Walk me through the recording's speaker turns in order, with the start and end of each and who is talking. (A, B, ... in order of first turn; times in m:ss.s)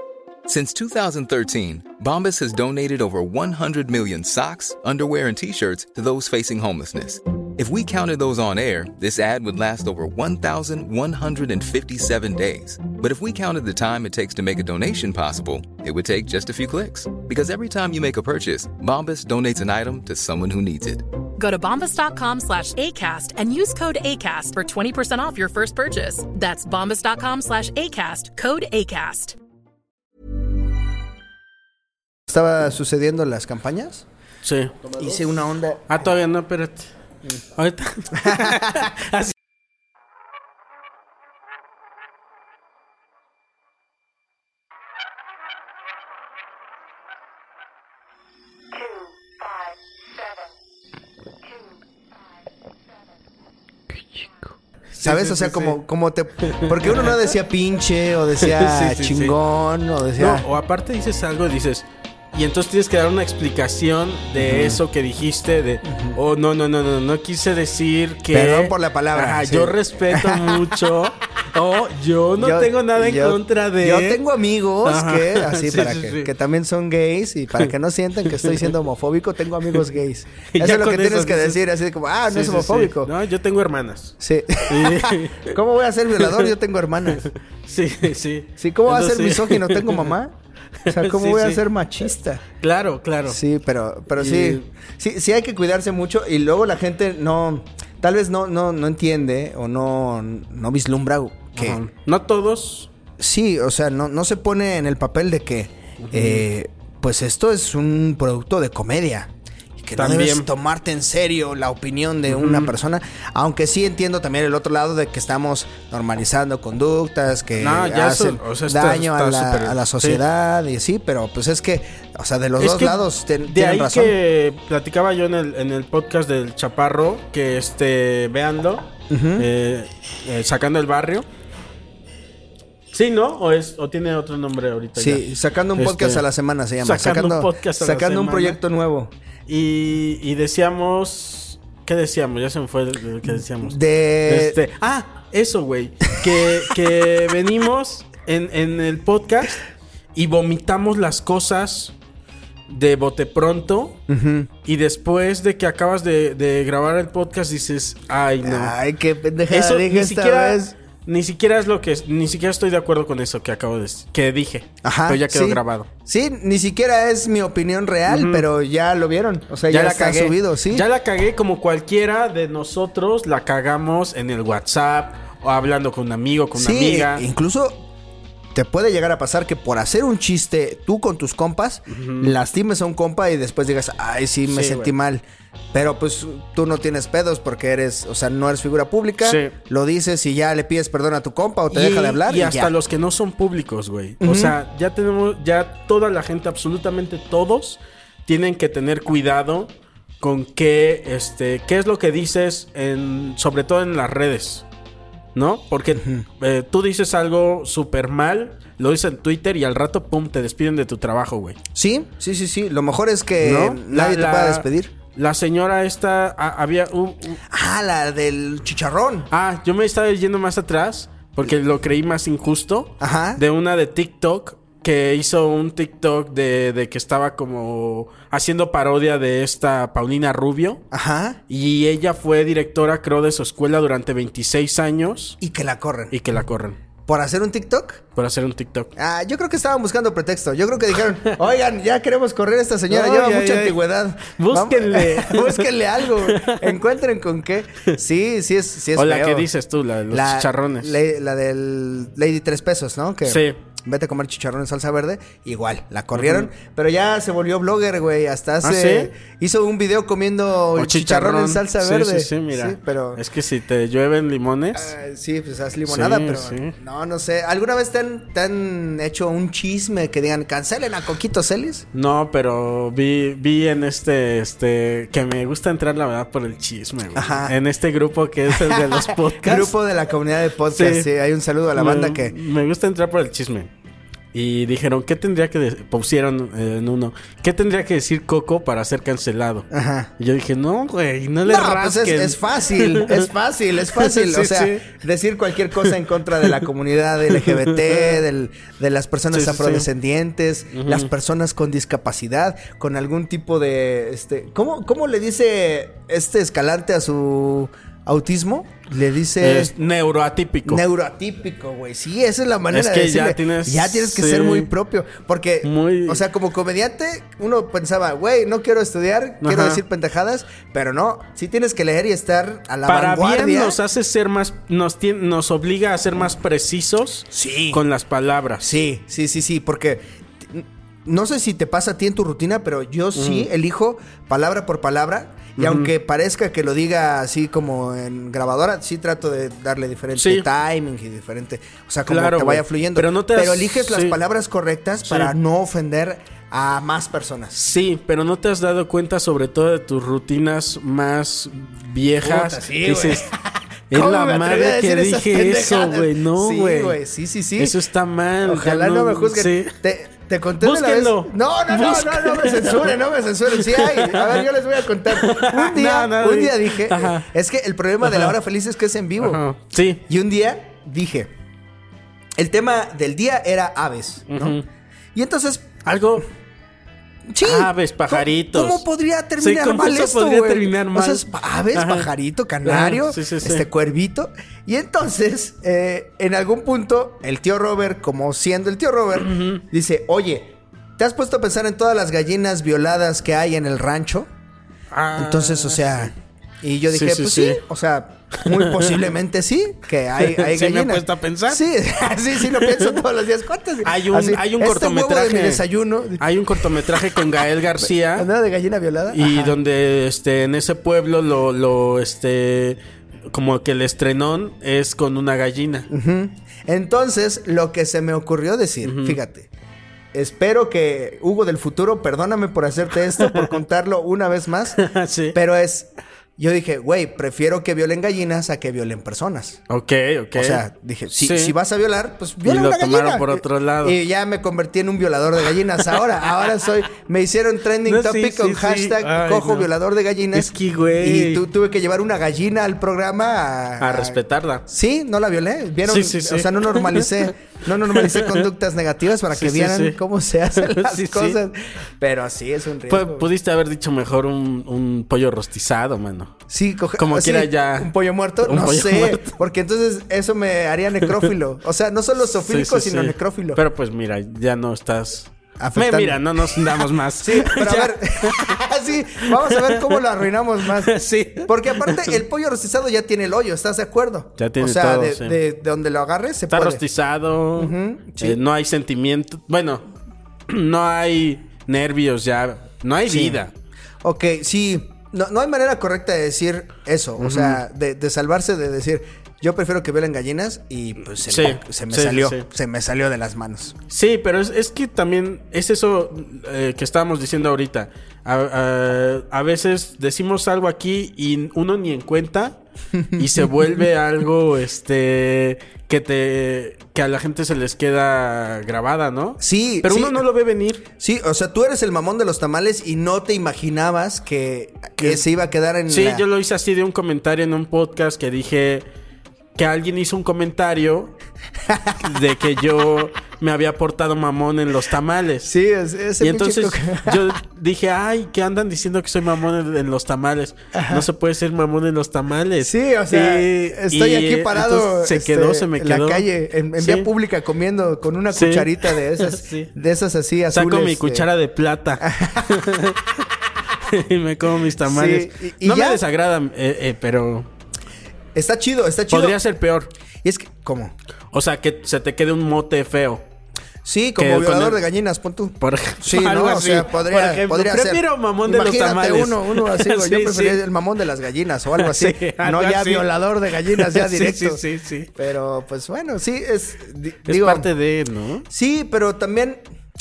0:00.5-0:21.0 A
0:21.4-0:29.4 B
0:32.3-0:34.0 C
0:34.4-0:34.8 D
0:34.9-0:35.9 C
0:35.9-0:36.9 D
0:37.6-0:39.3 D
0:38.2-0:38.8 C
0:54.9-0:55.8 D
0:55.0-1:00.5 C
0:56.4-0:57.2 D
0:58.4-0:59.4 D
1:00.2-1:14.2 D
1:04.4-1:04.8 C
1:05.9-1:06.2 C
1:08.3-1:10.8 C
1:12.4-1:23.1 C
1:14.8-1:16.3 D
1:18.2-1:18.7 D
1:20.5-1:21.6 D
1:22.3-1:25.6 D
1:24.2-1:27.3 C
1:26.2-1:26.5 D
1:27.1-1:30.1 D
1:28.6-1:30.3 C
1:30.8-1:31.6 D
1:30.9-1:32.4 C
1:32.6-1:33.4 D
1:33.3-1:41.8 C
1:34.2-1:34.6 D
1:41.6-1:42.9 D
1:43.2-2:04.2 C
1:46.0-1:46.4 D
1:50.0-1:50.5 D
1:52.3-1:52.7 D
1:57.6-2:00.2 D
2:02.6-2:11.2 D
2:09.1-2:09.5 C
2:12.9-2:15.3 D
2:15.0-2:19.1 C
2:15.8-2:16.2 D
2:16.8-2:18.6 D
2:19.5-2:29.6 D
2:23.3-2:24.6 C
2:30.2-2:31.9 D
2:32.7-2:34.0 D
2:34.1-2:34.5 C
2:34.7-2:38.8 D
2:38.4-2:40.7 C
2:39.5-2:45.9 D
2:44.8-2:50.9 C
2:48.1-2:48.5 D
2:49.7-2:57.2 D
2:56.5-2:57.8 C
2:58.5-3:12.7 C
3:01.9-3:02.4 D
3:04.5-3:04.9 D
3:09.2-3:09.6 D
3:11.7-3:24.6 D
3:14.2-3:14.6 C
3:25.4-3:31.6 D
3:31.8-3:34.9 C
3:33.4-3:37.4 D
3:37.5-3:39.3 C
3:39.3-3:50.8 D
3:43.0-3:43.4 C
3:50.9-3:51.4 C
3:51.5-3:55.4 D
3:55.4-3:56.2 C
3:56.1-3:56.8 D
3:57.1-3:58.0 C
3:58.2-3:58.9 D
3:59.0-4:09.5 C
4:02.9-4:06.8 D
4:09.0-4:11.0 D
4:10.1-4:23.2 C
4:13.2-4:13.6 D
4:16.1-4:16.5 D
4:18.6-4:19.1 D
4:20.8-4:24.9 D
4:24.7-4:31.8 C
4:25.9-4:26.7 D
4:31.9-4:39.7 D
4:37.2-4:37.5 C
4:38.5-4:42.3 C
4:40.7-4:41.1 D
4:41.8-4:43.7 D
4:44.3-4:49.7 D
4:49.7-4:50.1 C
4:50.2-4:53.3 D
4:51.4-5:09.7 C
4:53.9-4:54.8 D
4:57.3-4:58.2 D
4:59.3-4:59.9 D
5:00.7-5:01.1 D
5:09.4-5:10.8 D
5:10.6-5:23.8 C
5:12.7-5:14.7 D
5:15.6-5:16.2 D
5:19.4-5:19.8 D
5:22.9-5:28.7 D
5:27.3-5:27.8 C
5:28.6-5:47.6 C
5:33.2-5:33.5 D
5:35.6-5:35.9 D
5:40.2-5:40.5 D
5:42.1-5:44.2 D
5:45.0-5:45.4 D
5:47.5-5:53.3 D
5:52.2-5:53.4 C
5:53.9-5:57.0 D
5:53.9-5:57.8 C
5:57.6-5:59.7 D
5:58.4-6:09.4 C
6:00.6-6:03.0 D
6:03.5-6:04.5 D
6:05.1-6:07.3 D
6:08.0-6:08.4 D
6:09.2-6:10.0 D
6:10.1-6:11.3 C
6:12.4-6:14.6 C
6:14.3-6:14.6 D
6:15.2-6:15.7 C
6:15.8-6:16.3 D
6:17.3-6:34.3 C
6:17.4-6:18.8 D
6:19.4-6:22.1 D
6:22.6-6:23.7 D
6:29.2-6:29.6 D
6:34.9-6:36.1 D
6:35.2-6:46.9 C
6:36.9-6:37.6 D
6:38.4-6:39.0 D
6:40.2-6:41.7 D
6:42.4-6:42.9 D
6:43.8-6:45.6 D
6:46.2-6:48.3 D
6:48.1-6:49.6 C
6:49.1-6:55.9 D
6:55.9-6:59.5 C
6:58.8-6:59.2 D
7:00.1-7:09.6 C
7:03.2-7:03.5 D
7:04.8-7:05.4 D
7:09.7-7:11.6 D
7:10.4-7:33.3 C
7:12.4-7:14.0 D
7:17.8-7:19.7 D
7:20.3-7:21.4 D
7:23.8-7:24.6 D
7:25.8-7:27.3 D
7:28.0-7:28.5 D
7:29.3-7:30.0 D
7:30.6-7:31.4 D
7:32.9-7:36.3 D
7:36.5-7:43.6 C
7:37.0-7:37.9 D
7:38.4-7:39.3 D
7:42.4-7:48.6 D
7:45.6-7:56.8 C
7:49.3-7:50.0 D
7:50.7-7:52.2 D
7:54.4-7:55.4 D
7:56.5-7:59.9 D
7:57.6-7:58.4 C
8:00.5-8:03.5 D
8:03.1-8:03.4 C
8:04.0-8:13.8 C
8:07.2-8:07.6 D
8:11.3-8:12.4 D
8:13.9-8:22.6 D
8:23.0-8:23.8 C
8:23.2-8:30.9 D
8:29.4-8:30.2 C
8:31.0-8:36.2 C
8:35.9-8:38.9 D
8:39.6-8:41.1 D
8:41.7-8:41.9 C
8:42.0-8:45.5 D
8:45.4-8:47.3 C
8:46.2-8:57.1 D
8:50.7-8:51.1 C
8:52.6-9:01.3 C
8:58.3-8:59.7 D
9:00.5-9:03.2 D
9:02.0-9:02.6 C
9:03.9-9:07.5 D
9:04.8-9:06.0 C
9:08.4-9:09.4 C
9:09.1-9:09.9 D
9:10.2-9:10.9 C
9:11.3-9:13.2 D
9:13.8-9:24.6 C
9:14.2-9:14.8 D
9:15.6-9:20.6 D
9:21.7-9:23.1 D
9:23.7-9:25.1 D
9:25.2-9:27.7 C
9:27.3-9:28.5 D
9:28.5-9:29.6 C